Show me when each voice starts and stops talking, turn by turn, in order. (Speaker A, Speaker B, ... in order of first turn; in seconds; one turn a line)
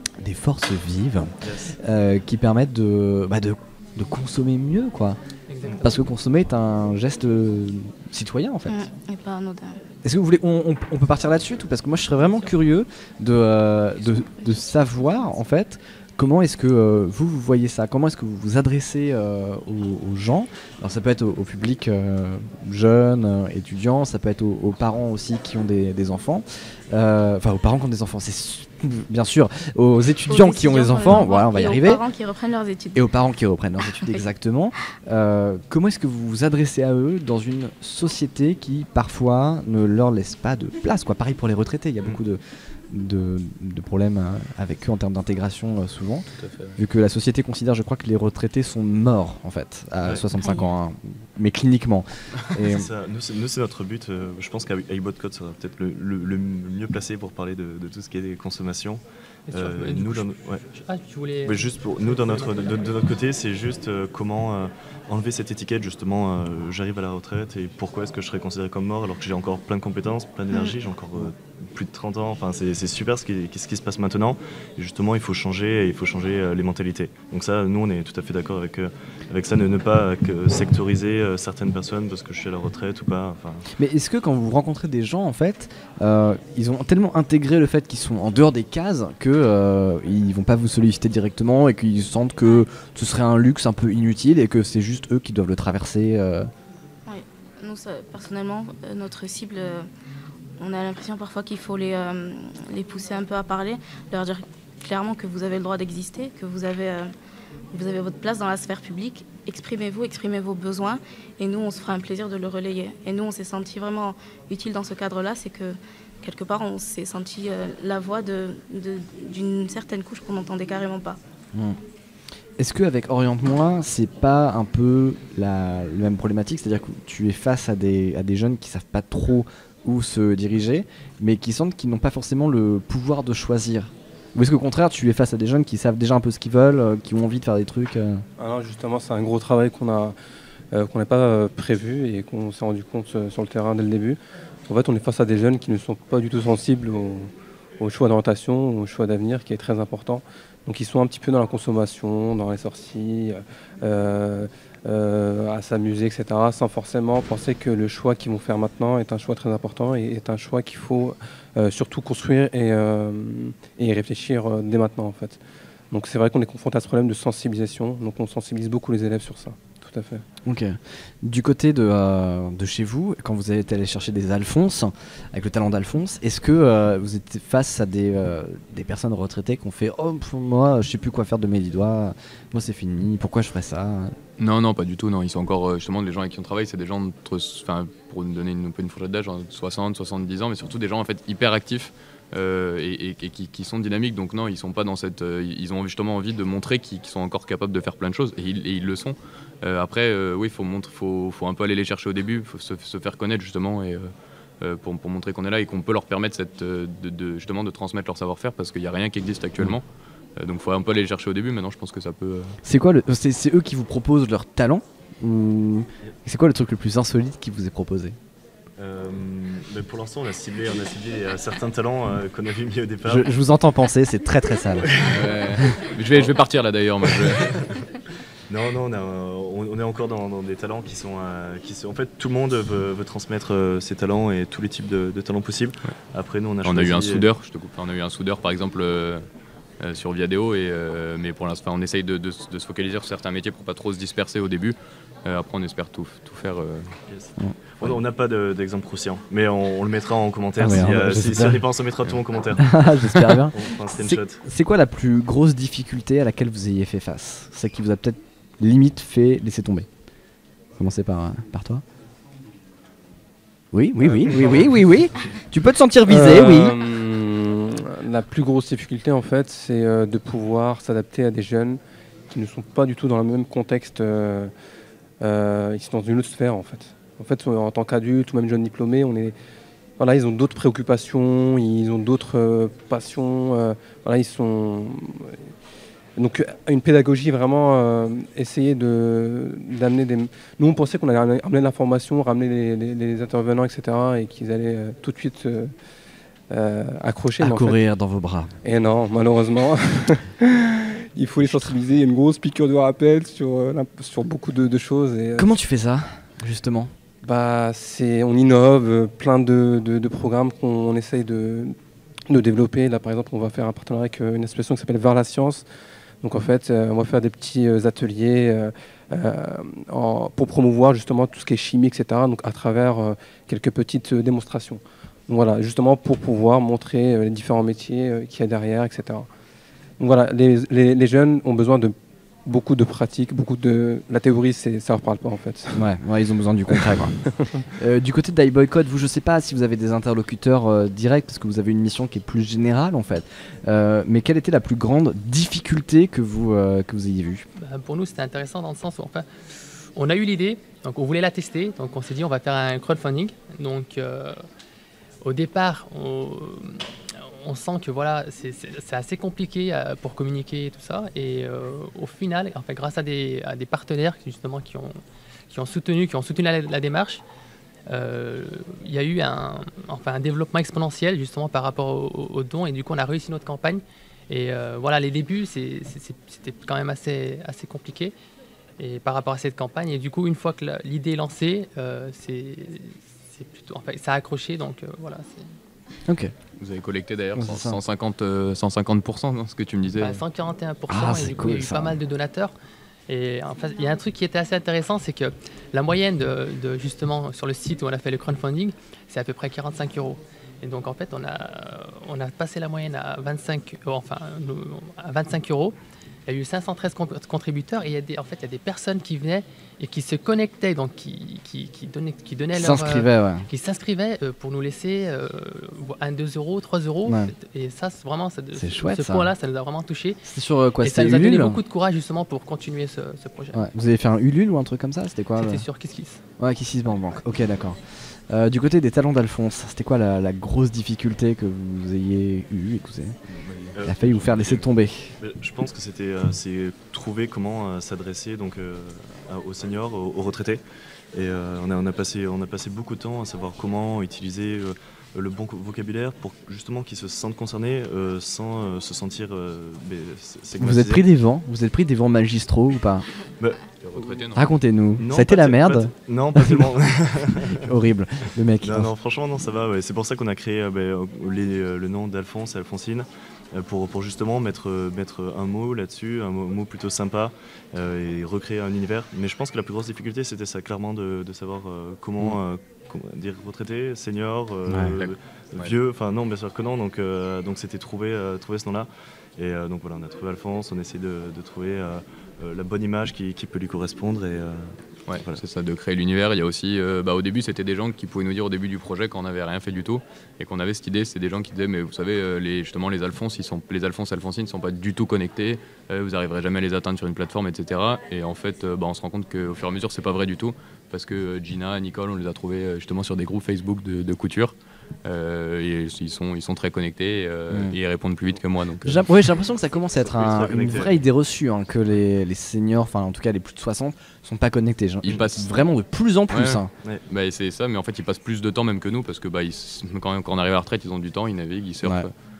Speaker A: 0.2-1.3
Speaker B: 1.4-1.7
Speaker A: 1.8-5.2
Speaker C: 5.5-6.0
Speaker A: 5.8-8.8
Speaker D: 8.7-9.8
Speaker A: 10.0-32.0
Speaker D: 30.3-33.0
Speaker A: 32.9-46.2
Speaker D: 33.8-34.2
Speaker E: 46.4-46.8
Speaker A: 46.8-52.9
Speaker D: 50.4-50.6
Speaker B: 52.7-60.6
Speaker C: 59.5-63.0
Speaker B: 61.5-83.6
Speaker A: 83.8-96.5
Speaker D: 97.1-99.9
Speaker D: 100.6-107.1
Speaker D: 107.7-121.2
Speaker A: 122.6-138.2
Speaker F: 138.4-140.1
Speaker F: 140.7-165.4
Speaker F: 165.9-170.2
Speaker A: 170.4-184.1
Speaker E: 184.4-204.1
Speaker E: 204.6-209.8
Speaker E: 210.4-212.6
Speaker A: 212.6-218.2
Speaker B: 218.8-223.3
Speaker A: 223.0-224.9
Speaker B: 224.9-225.6
Speaker E: 225.0-227.5
Speaker B: 227.1-227.4
Speaker B: 228.5-237.2
Speaker E: 236.6-239.2
Speaker E: 239.8-246.9
Speaker B: 247.1-252.8
Speaker A: 247.4-247.9
Speaker A: 250.6-251.6
Speaker A: 252.6-259.9
Speaker B: 253.5-254.4
Speaker A: 260.8-261.8
Speaker A: 263.7-266.8
Speaker B: 264.0-264.5
Speaker F: 264.3-264.7
Speaker F: 266.1-271.8
Speaker F: 272.3-274.5
Speaker F: 275.2-279.3
Speaker F: 280.0-285.4
Speaker F: 286.2-295.7
Speaker F: 296.5-297.8
Speaker A: 297.4-298.5
Speaker F: 298.6-300.5
Speaker F: 301.1-305.5
Speaker A: 301.4-301.7
Speaker A: 305.4-306.9
Speaker F: 307.2-311.7
Speaker F: 312.3-315.6
Speaker F: 316.2-329.3
Speaker F: 330.0-331.9
Speaker F: 332.4-335.8
Speaker A: 335.7-337.2
Speaker A: 337.8-347.4
Speaker C: 347.6-349.3
Speaker C: 349.9-354.4
Speaker C: 355.2-365.0
Speaker C: 365.5-367.2
Speaker C: 367.9-378.1
Speaker C: 378.8-385.5
Speaker E: 386.6-390.2
Speaker A: 387.4-387.8
Speaker C: 390.0-392.5
Speaker A: 390.9-392.0
Speaker C: 393.1-420.2
Speaker A: 412.5-413.4
Speaker A: 417.1-417.3
Speaker A: 418.5-419.3
Speaker A: 420.2-421.6
Speaker C: 420.8-423.6
Speaker A: 423.5-425.6
Speaker C: 425.4-426.2
Speaker A: 426.4-427.8
Speaker A: 428.3-433.1
Speaker B: 433.7-434.7
Speaker A: 433.8-435.1
Speaker B: 435.2-440.6
Speaker B: 441.1-451.0
Speaker A: 450.6-453.0
Speaker B: 453.4-454.3
Speaker E: 453.8-454.5
Speaker A: 454.3-456.7
Speaker B: 455.0-457.6
Speaker A: 457.5-458.9
Speaker B: 458.6-485.4
Speaker A: 474.7-474.9
Speaker E: 474.9-475.7
Speaker E: 485.1-509.1
Speaker A: 507.5-507.7
Speaker A: 508.8-516.7
Speaker B: 510.0-511.0
Speaker E: 515.0-515.5
Speaker E: 516.3-522.1
Speaker A: 521.8-522.1